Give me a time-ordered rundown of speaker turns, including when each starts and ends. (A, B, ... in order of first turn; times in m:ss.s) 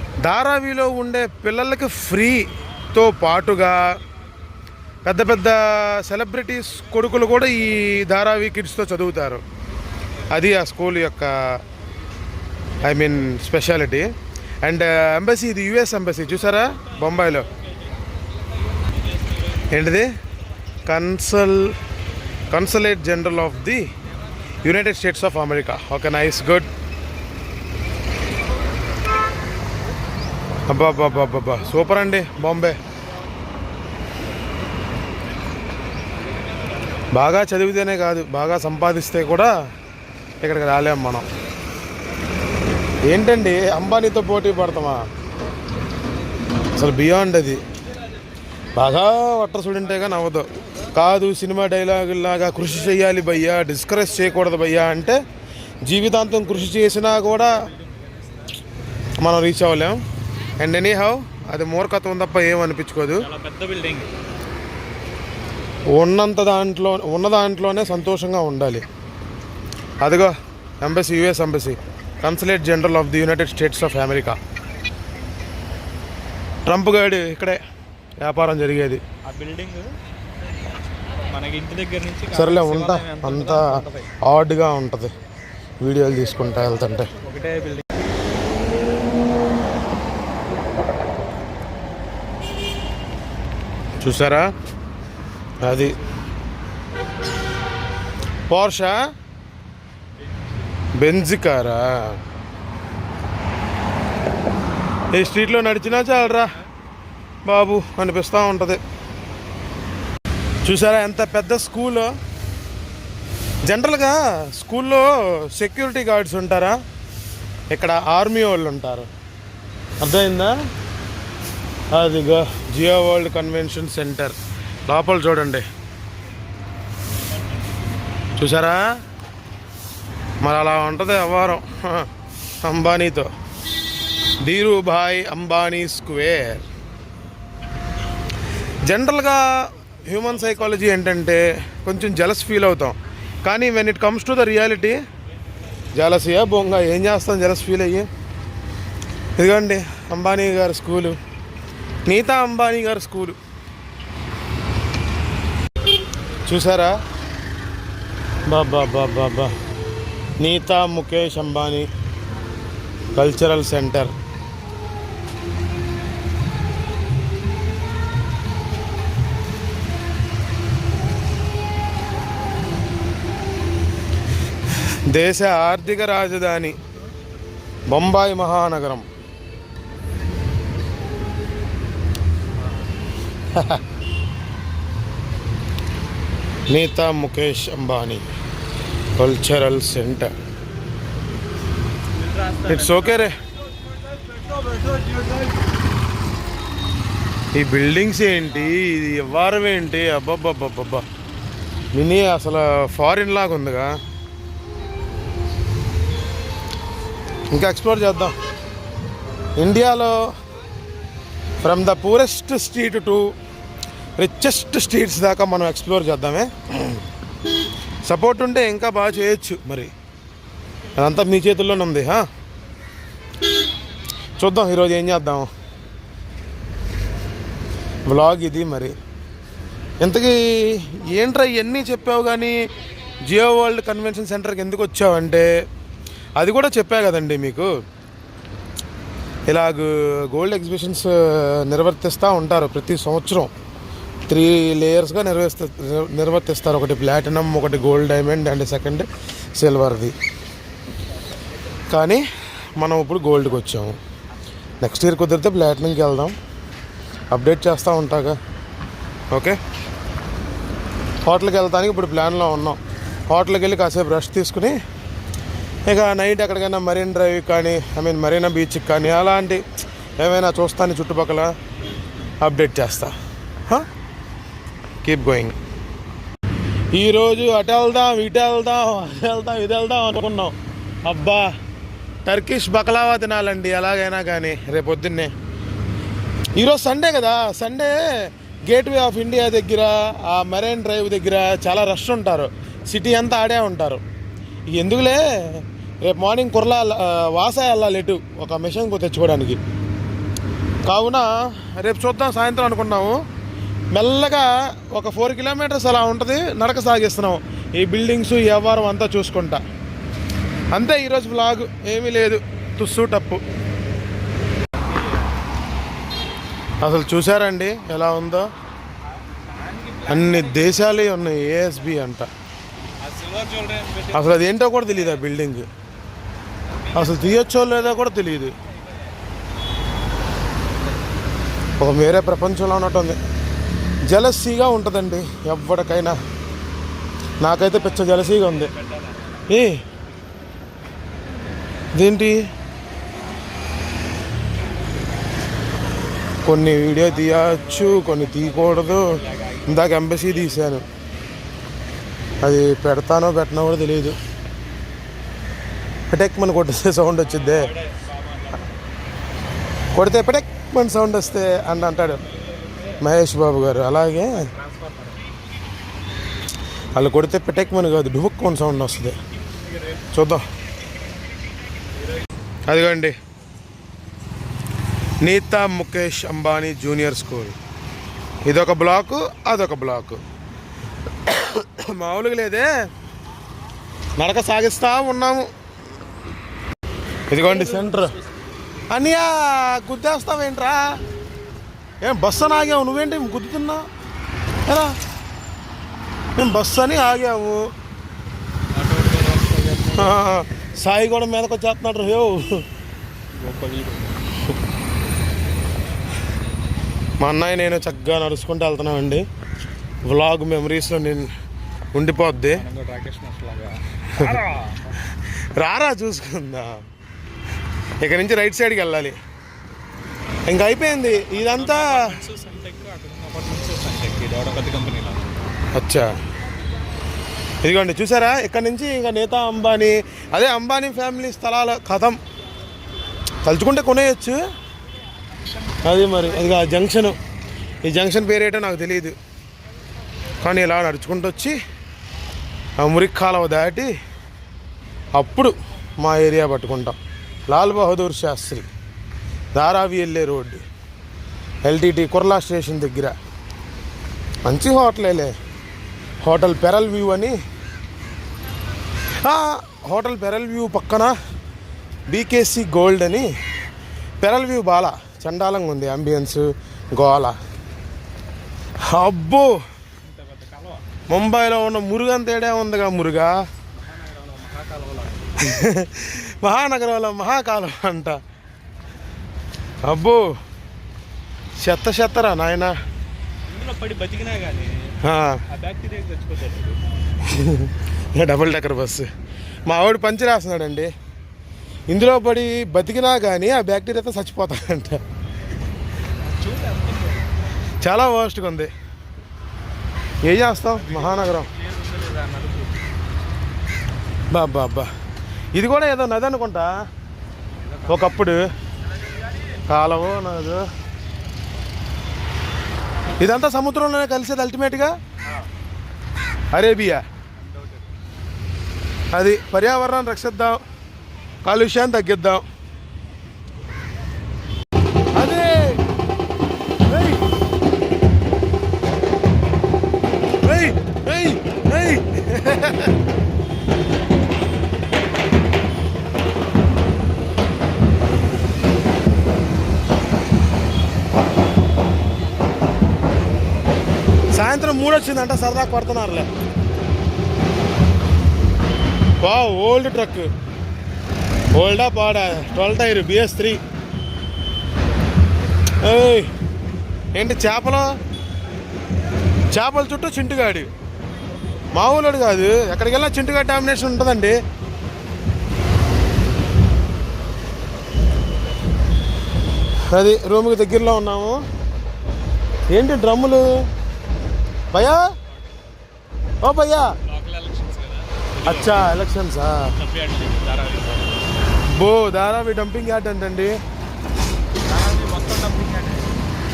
0:00.2-0:03.8 A
0:05.0-0:09.4 A
0:10.3-0:11.3 A
0:12.8-0:14.0 A
0:14.6-0:17.4 A
0:19.7-0:20.1 A
0:20.9-0:21.7 A
0:22.5-0:23.9 A
0:24.6-0:26.7 A
0:30.7-0:32.7 A
0:37.1-0:39.5 A
0:40.4-0:41.2 A
0:43.1-0:45.0 A
0:46.8-0:47.6 A
0:48.8-0:55.2 A
0:55.9-0:57.5 A
0:59.2-1:00.0 A
1:00.6-1:03.3 A
1:03.2-1:04.1 B
1:05.9-1:08.8 A
1:10.0-1:14.4 A
1:16.6-1:17.6 A
1:18.2-1:19.0 A
1:19.2-1:19.9 B
1:21.3-1:24.1 B
1:22.3-1:23.7 A
1:24.2-1:25.1 A
1:25.8-1:27.1 A
1:27.2-1:27.9 B
1:34.0-1:34.5 A
1:35.6-1:36.0 A
1:38.5-1:39.0 A
1:41.0-1:41.8 A
1:45.1-1:46.5 A
1:47.4-1:48.8 A
1:50.6-1:52.1 A
1:53.7-1:56.8 A
1:57.7-1:59.1 A
2:00.0-2:00.5 A
2:01.9-2:04.4 A
2:04.9-2:05.6 A
2:08.4-2:08.8 A
2:10.4-2:12.1 A
2:12.6-2:13.3 A
2:14.4-2:16.6 A
2:18.9-2:19.4 A
2:20.1-2:25.0 A
2:25.9-2:28.1 A
2:29.4-2:31.2 A
2:32.1-2:33.4 A
2:36.5-2:37.0 A
2:38.5-2:39.5 A
2:40.4-2:41.9 A
2:43.2-2:44.1 A
2:55.1-2:56.8 A
2:57.9-2:59.0 A
3:03.5-3:03.8 A
3:06.7-3:08.2 A
3:09.2-3:10.3 A
3:12.2-3:13.2 B
3:12.7-3:13.3 A
3:14.2-3:15.5 B
3:17.5-3:21.0 A
3:21.9-3:23.9 A
3:27.5-3:28.3 A
3:29.6-3:30.1 A
3:31.6-3:33.3 A
3:34.2-3:37.0 A
3:38.0-3:39.9 A
3:41.0-3:42.2 A
3:44.4-3:45.5 A
3:48.1-3:48.9 A
3:50.0-3:52.5 A
3:53.3-3:55.5 A
3:56.4-3:57.7 A
3:59.5-4:03.5 A
4:04.3-4:09.0 A
4:09.6-4:10.1 A
4:11.9-4:12.2 A
4:12.8-4:14.0 A
4:14.8-4:16.3 A
4:17.3-4:18.4 A
4:19.3-4:19.6 A
4:21.2-4:22.8 A
4:23.3-4:24.8 A
4:25.9-4:29.6 A
4:30.2-4:31.5 A
4:32.4-4:33.1 A
4:35.0-4:35.5 A
4:36.9-4:40.5 A
4:41.0-4:41.4 A
4:42.2-4:45.3 A
4:46.6-4:47.9 A
4:48.7-4:54.0 A
4:54.7-4:59.6 A
5:00.9-5:03.2 A
5:03.9-5:09.6 A
5:10.7-5:13.4 A
5:14.9-5:15.3 B
5:16.8-5:18.4 A
5:19.4-5:20.8 B
5:20.1-5:22.3 A
5:23.0-5:24.4 B
5:24.1-5:25.7 A
5:26.7-5:27.5 B
5:26.9-5:28.5 A
5:31.8-5:33.2 A
5:34.1-5:36.1 A
5:37.4-5:38.7 A
5:37.7-5:39.4 B
5:39.5-5:39.8 A
5:41.9-5:42.3 A
5:46.4-5:50.8 A
5:47.0-5:50.8 B
5:52.4-5:54.1 A
5:56.1-5:57.7 A
5:57.2-5:58.6 B
5:59.9-6:02.2 A
6:03.0-6:04.5 A
6:04.6-6:05.2 B
6:06.9-6:09.2 A
6:10.1-6:10.4 A
6:12.7-6:13.1 A
6:15.2-6:17.5 A
6:18.4-6:20.2 A
6:21.2-6:22.7 A
6:24.2-6:25.4 A
6:27.3-6:28.2 A
6:28.9-6:30.8 A
6:32.0-6:33.8 A
6:34.7-6:34.9 A
6:36.4-6:37.6 A
6:38.7-6:40.1 B
6:40.0-6:42.4 A
6:43.4-6:44.1 B
6:47.2-6:49.2 A
6:50.0-6:51.3 A
6:51.9-6:52.6 A
6:52.5-6:54.8 B
6:54.2-6:54.4 A
6:55.6-6:56.7 A
6:58.0-6:59.1 A
7:00.5-7:02.0 A
7:00.9-7:05.3 B
7:05.7-7:06.1 A
7:07.6-7:12.2 A
7:13.4-7:14.4 A
7:15.8-7:17.1 A
7:17.8-7:19.1 A
7:20.4-7:21.6 A
7:22.8-7:23.9 A
7:25.1-7:27.0 A
7:27.5-7:28.6 A
7:29.5-7:30.6 A
7:31.6-7:33.1 A
7:34.4-7:35.3 A
7:36.2-7:37.3 A
7:39.2-7:41.1 A
7:42.1-7:43.3 A
7:44.2-7:47.3 A
7:48.9-7:49.6 A
7:50.0-7:50.8 B
7:51.1-7:53.3 A
7:53.8-7:55.5 B
7:55.4-7:58.2 A
7:59.8-8:00.2 A
8:01.6-8:02.7 A
8:03.5-8:06.8 B
8:05.0-8:05.4 A
8:07.2-8:09.0 A
8:09.6-8:10.9 A
8:11.9-8:15.0 A
8:16.2-8:17.2 B
8:17.8-8:18.7 A
8:20.2-8:21.5 A
8:20.5-8:22.8 B
8:24.3-8:24.9 A
8:25.5-8:26.7 A
8:27.9-8:28.4 A
8:29.7-8:30.6 A
8:33.2-8:34.9 A
8:36.5-8:37.0 A
8:39.1-8:40.6 A
8:41.4-8:42.4 A
8:45.1-8:45.6 A
8:46.9-8:47.2 A
8:50.4-8:52.9 A
9:04.3-9:06.3 A
9:09.2-9:10.3 A
9:11.6-9:13.6 A
9:15.8-9:16.3 A
9:17.1-9:17.8 A
9:19.5-9:20.7 A
9:21.7-9:24.4 A
9:29.9-9:31.4 A
9:32.7-9:33.4 A
9:34.7-9:35.0 A
9:36.4-9:36.9 A
9:37.1-9:38.9 B
9:38.4-9:39.6 A
9:39.8-9:41.2 B
9:41.8-9:43.5 A
9:44.7-9:46.2 B